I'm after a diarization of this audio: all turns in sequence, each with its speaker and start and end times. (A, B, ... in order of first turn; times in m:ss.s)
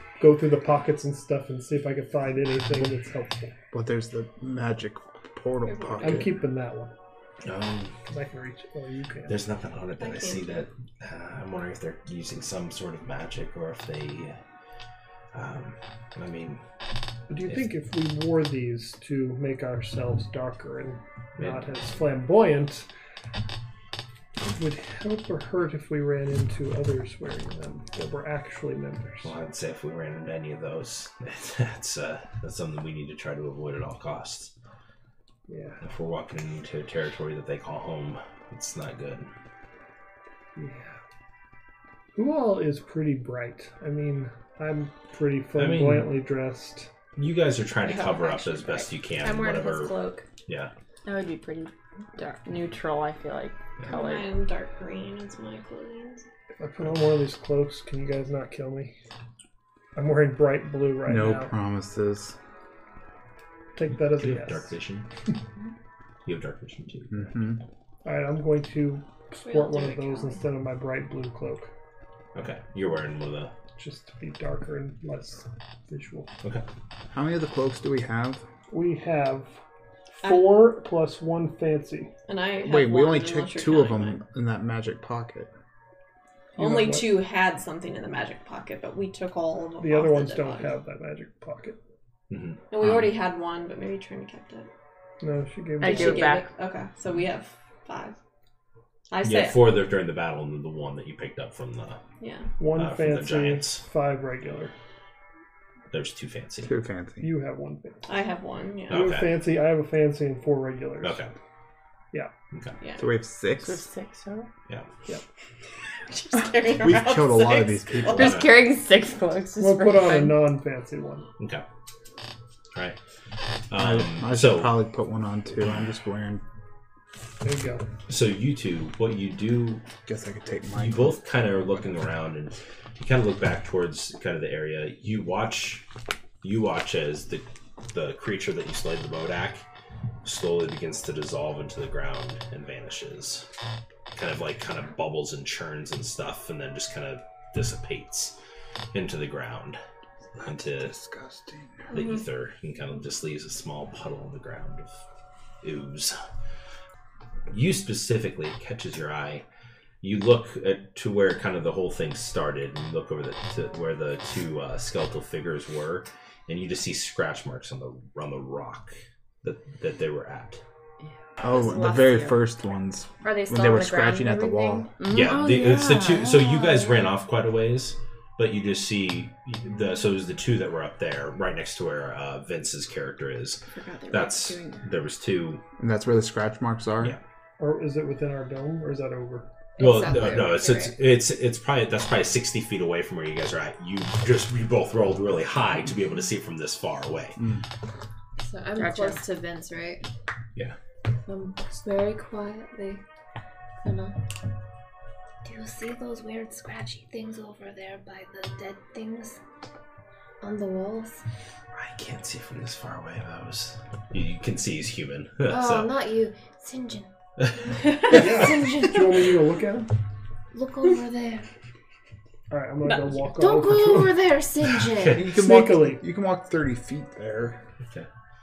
0:00.2-0:03.5 A
0:03.7-0:06.4 B
0:05.7-0:06.3 C
0:06.0-0:06.9 A
0:07.4-0:08.0 D
0:08.1-0:09.4 A
0:09.3-0:14.4 D
0:10.0-0:10.6 C
0:15.3-0:16.6 D
0:17.3-0:22.9 A
0:24.5-0:29.3 A
0:29.2-0:34.5 D
0:35.5-0:35.8 A
0:35.8-0:39.3 D
0:40.6-0:41.0 A
0:42.2-0:46.9 A
0:45.6-0:46.1 D
0:47.2-0:50.7 D
0:48.0-0:50.2 E
0:51.1-0:54.3 F
0:53.9-0:56.2 C
0:56.6-0:58.9 A
1:00.0-1:01.5 A
1:01.0-1:02.4 B
1:03.8-1:04.7 A
1:04.0-1:05.1 D
1:06.3-1:07.3 D
1:07.1-1:07.6 B
1:08.0-1:11.7 A
1:09.5-1:10.4 E
1:12.4-1:13.5 D
1:13.8-1:16.3 A
1:17.1-1:18.4 B
1:18.7-1:19.5 A
1:20.2-1:22.1 A
1:20.2-1:20.7 C
1:22.3-1:24.2 C
1:22.6-1:25.5 B
1:26.6-1:27.2 A
1:26.6-1:30.8 C
1:29.8-1:31.8 A
1:32.3-1:33.1 D
1:32.7-1:34.7 C
1:35.2-1:36.3 A
1:35.8-1:36.5 F
1:35.8-1:38.2 C
1:39.1-1:39.8 C
1:39.2-1:42.0 D
1:42.2-1:42.5 C
1:42.6-1:44.7 A
1:42.8-1:43.8 D
1:45.9-1:46.7 D
1:46.6-1:47.3 B
1:47.2-1:48.0 A
1:48.1-1:49.2 C
1:48.9-1:49.4 D
1:48.9-1:51.2 A
1:51.0-1:51.3 D
1:52.8-1:53.1 C
1:53.0-1:53.9 B
1:53.6-1:54.5 F
1:56.1-1:58.3 C
1:56.8-1:58.4 B
1:58.0-1:58.6 D
1:58.2-2:00.5 F
1:59.6-2:01.3 A
2:01.4-2:01.6 D
2:03.7-2:04.8 D
2:03.7-2:06.4 B
2:07.4-2:07.8 A
2:08.1-2:09.8 D
2:10.1-2:11.2 B
2:10.8-2:15.8 D
2:16.4-2:19.6 D
2:20.2-2:23.5 D
2:24.1-2:28.4 D
2:28.9-2:29.8 D
2:30.4-2:30.9 D
2:30.4-2:31.9 B
2:31.9-2:35.0 D
2:31.9-2:32.2 C
2:35.6-2:36.2 D
2:37.5-2:39.4 D
2:40.0-2:50.6 D
2:51.4-2:52.4 F
2:51.4-2:54.9 B
2:53.2-2:54.9 E
2:55.0-2:57.2 F
2:55.1-3:05.6 D
3:03.7-3:04.9 F
3:05.8-3:07.2 B
3:07.6-3:09.5 A
3:09.8-3:11.0 E
3:09.8-3:17.4 D
3:17.4-3:17.6 B
3:18.4-3:20.0 E
3:18.8-3:19.2 F
3:21.3-3:23.0 E
3:23.8-3:24.2 E
3:25.4-3:29.4 E
3:30.4-3:31.2 E
3:31.7-3:35.9 D
3:35.5-3:37.1 E
3:38.1-3:39.1 E
3:38.1-3:39.9 A
3:40.5-3:41.5 E
3:42.5-3:44.1 A
3:43.3-3:45.2 E
3:44.8-3:45.2 D
3:45.1-3:47.6 B
3:45.3-3:46.0 A
3:47.8-3:48.1 D